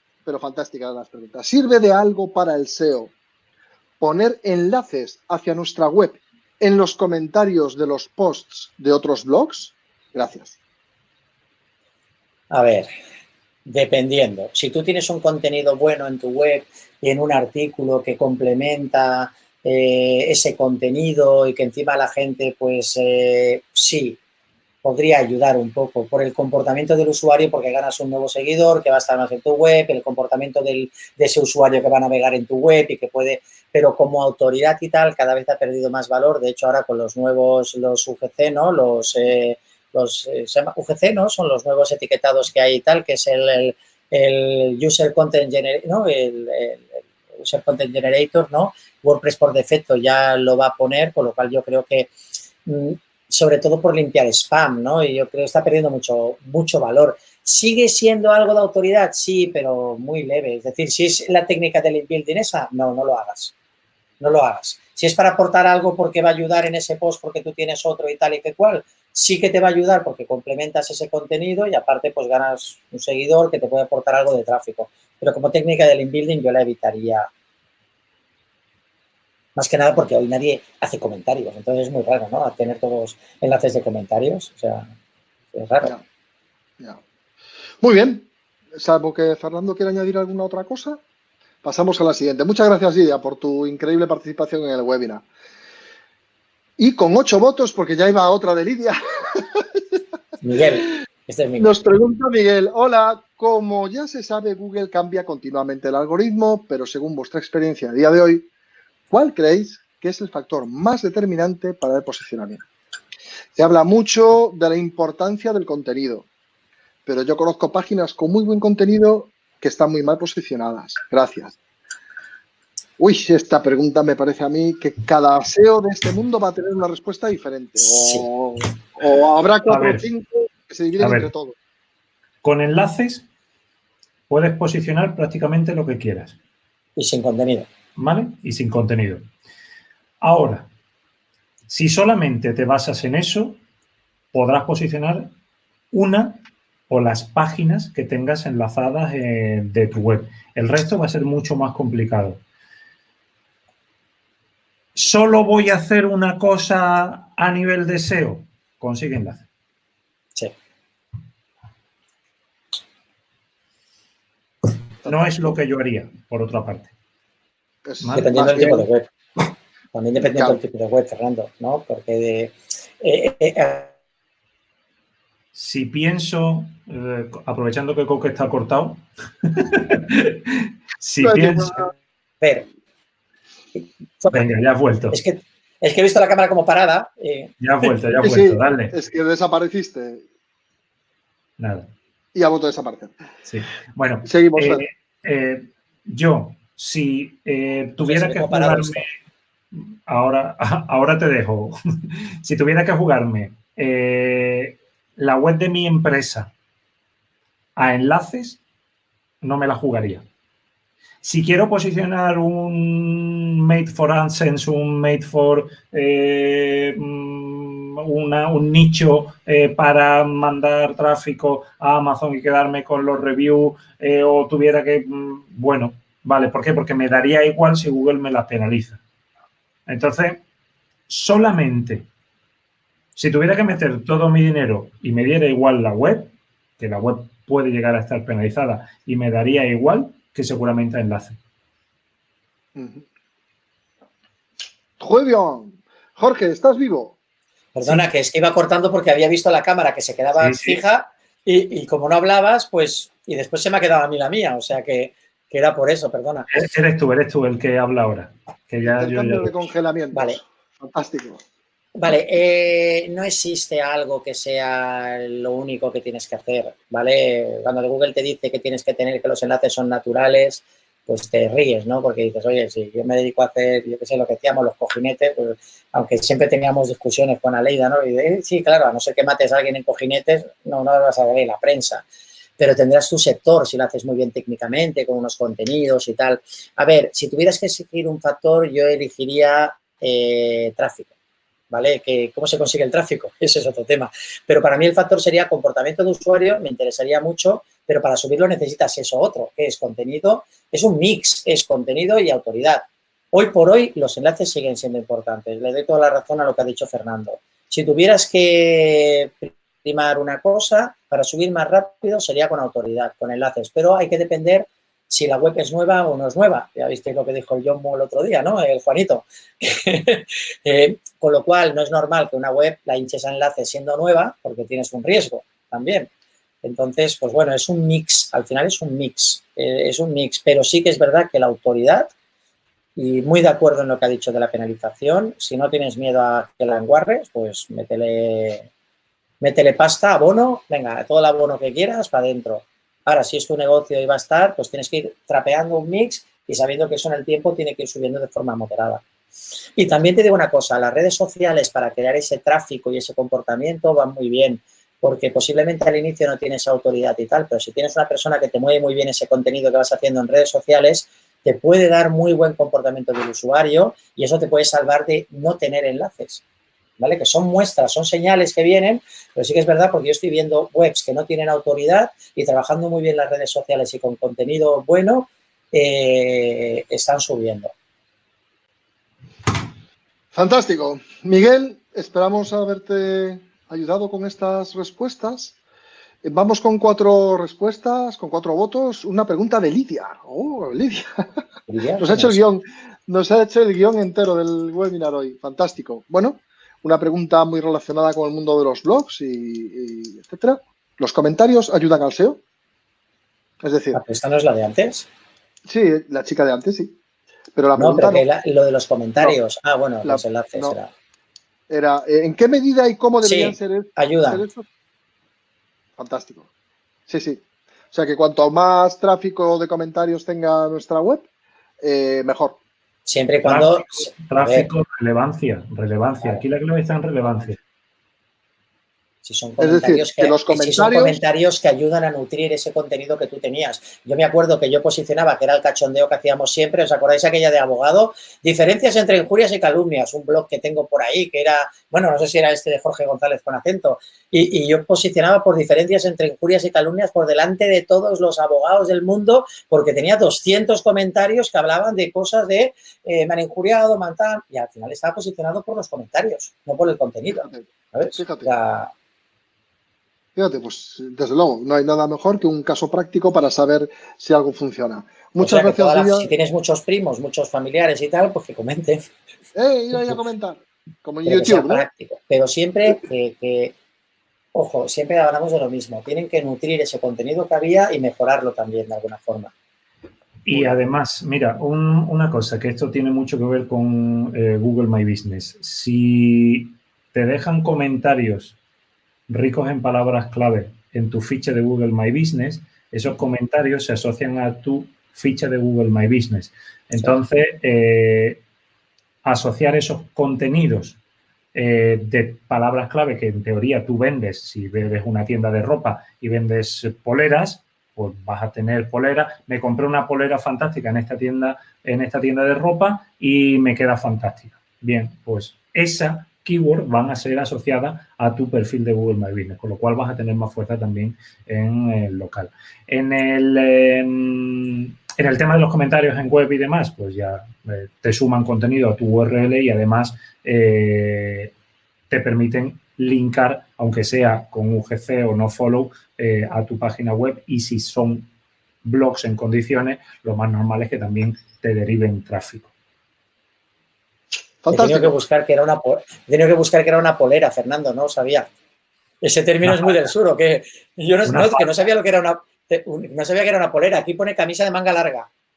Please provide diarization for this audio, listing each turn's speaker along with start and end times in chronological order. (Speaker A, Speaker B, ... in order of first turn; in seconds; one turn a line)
Speaker A: 0.2-3.1
Speaker A: 4.0-10.6
Speaker B: 12.5-12.9
Speaker B: 13.7-24.2
Speaker B: 24.8-52.1
Speaker B: 52.6-63.5
Speaker B: 64.2-77.3
Speaker B: 79.5-84.9
Speaker B: 85.5-85.9
Speaker A: 87.8-91.0
Speaker A: 91.6-95.2
Speaker A: 96.8-99.8
Speaker B: 100.4-101.8
Speaker A: 101.6-108.5
Speaker A: 109.1-112.7
Speaker A: 113.5-116.2
Speaker A: 117.0-121.5
Speaker A: 123.0-131.6
Speaker B: 127.8-128.2
Speaker C: 129.7-130.1
Speaker C: 131.0-131.3
Speaker C: 132.4-133.2
Speaker C: 134.3-136.3
Speaker B: 136.9-137.7
Speaker C: 137.9-139.3
Speaker C: 140.2-140.7
Speaker C: 141.7-143.6
Speaker C: 144.3-145.3
Speaker C: 145.9-152.4
Speaker C: 154.9-159.4
Speaker C: 165.0-166.9
Speaker A: 167.8-168.9
Speaker C: 168.0-168.3
Speaker B: 168.1-169.1
Speaker B: 169.9-173.9
Speaker A: 170.2-170.6
Speaker C: 175.5-181.9
Speaker A: 181.2-181.9
Speaker B: 182.4-182.7
Speaker B: 183.7-184.5
Speaker C: 184.3-185.2
Speaker B: 185.1-187.9
Speaker C: 187.6-188.9
Speaker A: 188.2-190.2
Speaker C: 191.6-191.9
Speaker A: 192.3-193.1
Speaker C: 193.5-199.1
Speaker A: 194.2-194.8
Speaker B: 198.0-199.1
Speaker C: 199.7-206.5
Speaker C: 207.8-208.6
Speaker C: 209.4-210.2
Speaker C: 211.2-229.0
Speaker C: 229.9-230.4
Speaker C: 231.1-232.1
Speaker C: 233.1-241.4
Speaker A: 242.7-243.0
Speaker A: 245.0-247.2
Speaker B: 247.7-256.5
Speaker C: 250.4-250.8
Speaker C: 256.5-259.6
Speaker A: 258.8-261.4
Speaker B: 260.1-260.4
Speaker B: 261.9-282.0
Speaker B: 282.6-291.1
Speaker B: 291.7-326.1
Speaker B: 326.6-332.1
Speaker B: 332.9-338.7
Speaker B: 339.4-349.0
Speaker B: 349.8-366.4
Speaker B: 367.0-377.7
Speaker A: 380.3-385.6
Speaker A: 386.2-391.3
Speaker B: 391.7-392.4
Speaker A: 392.0-402.4
Speaker A: 403.6-404.0
Speaker B: 403.9-405.1
Speaker A: 405.7-407.0
Speaker A: 407.5-408.2
Speaker B: 407.8-410.9
Speaker A: 410.0-410.8
Speaker A: 411.7-414.6
Speaker B: 413.2-414.4
Speaker A: 416.0-416.5
Speaker A: 417.1-421.3
Speaker A: 421.8-422.6
Speaker B: 423.1-424.7
Speaker C: 423.4-427.6
Speaker B: 429.2-458.9
Speaker A: 429.6-431.2
Speaker A: 457.3-458.5
Speaker A: 460.4-466.3
Speaker B: 465.4-469.1
Speaker A: 469.6-471.9
Speaker B: 471.2-473.7
Speaker B: 474.5-479.5
Speaker C: 480.4-488.6
Speaker C: 489.3-498.4
Speaker C: 499.2-501.0
Speaker C: 501.5-531.5
Speaker C: 532.1-538.3
Speaker C: 538.8-542.7
Speaker A: 544.6-545.2
Speaker B: 544.7-548.5
Speaker B: 549.2-555.3
Speaker C: 549.6-550.0
Speaker C: 551.2-551.7